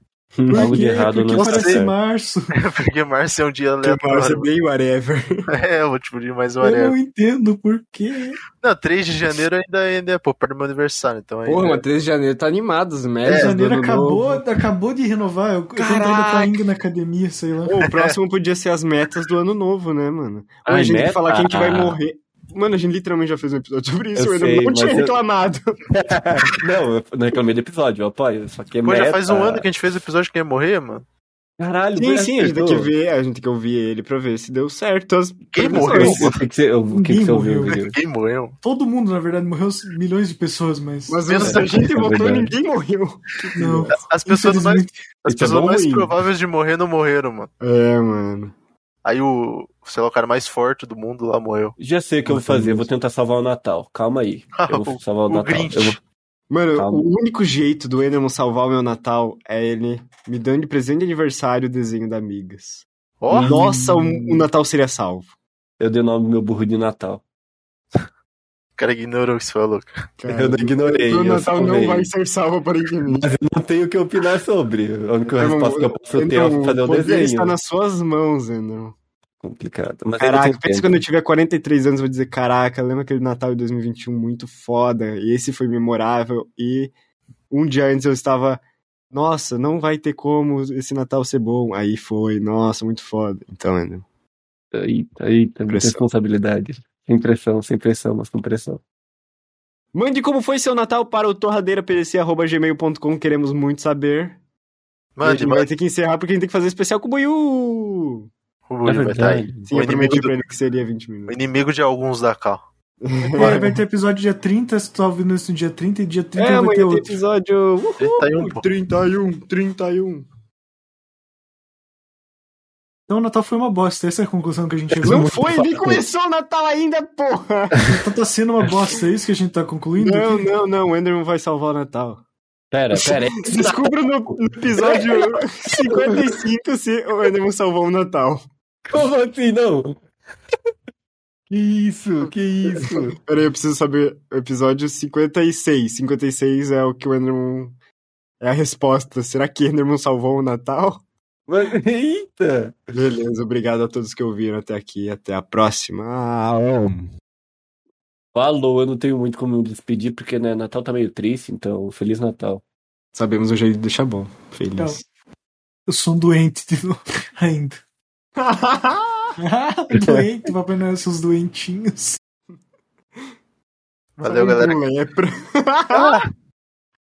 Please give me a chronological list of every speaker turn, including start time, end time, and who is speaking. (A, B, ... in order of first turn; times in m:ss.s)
0:00.4-0:00.8 A
0:00.5-0:02.5 B
0:00.5-0:01.9 C
0:01.3-0:01.8 D
0:02.6-0:04.5 D
0:03.8-0:05.4 A
0:05.5-0:06.9 D
0:06.6-0:08.4 B
0:08.6-0:11.8 D
0:11.4-0:14.4 A
0:13.2-0:13.5 D
0:13.2-0:17.7 B
0:15.8-0:16.5 A
0:17.7-0:25.8 A
0:20.6-0:22.0 C
0:24.1-0:25.2 C
0:25.9-0:29.7 C
0:28.8-0:31.0 D
0:31.6-0:32.9 C
0:32.0-0:36.4 A
0:35.5-0:36.4 D
0:35.8-0:37.9 C
0:36.9-0:37.8 B
0:37.9-0:38.5 D
0:38.6-0:41.2 B
0:41.1-0:44.0 A
0:41.3-0:41.8 D
0:41.4-0:42.5 C
0:43.6-0:45.0 B
0:43.9-0:47.5 D
0:45.3-0:46.0 C
0:45.4-0:46.1 A
0:47.6-0:48.5 A
0:49.0-0:51.7 D
0:51.8-0:56.0 C
0:52.3-0:52.9 A
0:54.5-0:56.0 D
0:56.5-1:05.3 A
0:56.7-0:57.1 C
1:03.2-1:03.6 D
1:03.3-1:04.5 C
1:05.8-1:07.2 C
1:08.8-1:09.9 D
1:10.2-1:13.3 A
1:10.3-1:12.1 C
1:13.1-1:17.6 C
1:15.3-1:19.0 A
1:19.4-1:21.0 C
1:20.2-1:26.9 A
1:27.5-1:28.6 A
1:29.1-1:34.0 A
1:34.7-1:38.8 C
1:35.7-1:36.0 A
1:39.9-1:44.4 A
1:45.2-1:45.7 D
1:45.2-1:48.3 A
1:48.7-1:50.4 D
1:48.8-1:49.7 C
1:49.6-1:51.4 A
1:51.3-1:52.6 D
1:53.0-1:53.8 A
1:53.3-1:57.1 B
1:56.4-2:00.3 A
1:58.0-1:58.6 D
2:03.1-2:05.3 B
2:05.0-2:07.9 A
2:05.0-2:06.0 C
2:07.9-2:10.4 B
2:10.0-2:12.2 A
2:12.7-2:16.3 C
2:12.9-2:18.4 A
2:18.9-2:20.0 C
2:21.5-2:23.2 C
2:23.2-2:27.7 A
2:28.4-2:31.0 A
2:31.5-2:32.8 C
2:32.9-2:37.1 A
2:38.3-2:42.6 C
2:43.1-2:45.0 A
2:44.8-2:45.0 B
2:45.9-2:47.8 B
2:48.4-2:49.3 A
2:49.4-2:52.2 B
2:49.9-2:50.2 C
2:54.2-2:54.8 D
2:54.2-2:56.2 A
2:55.9-2:56.2 D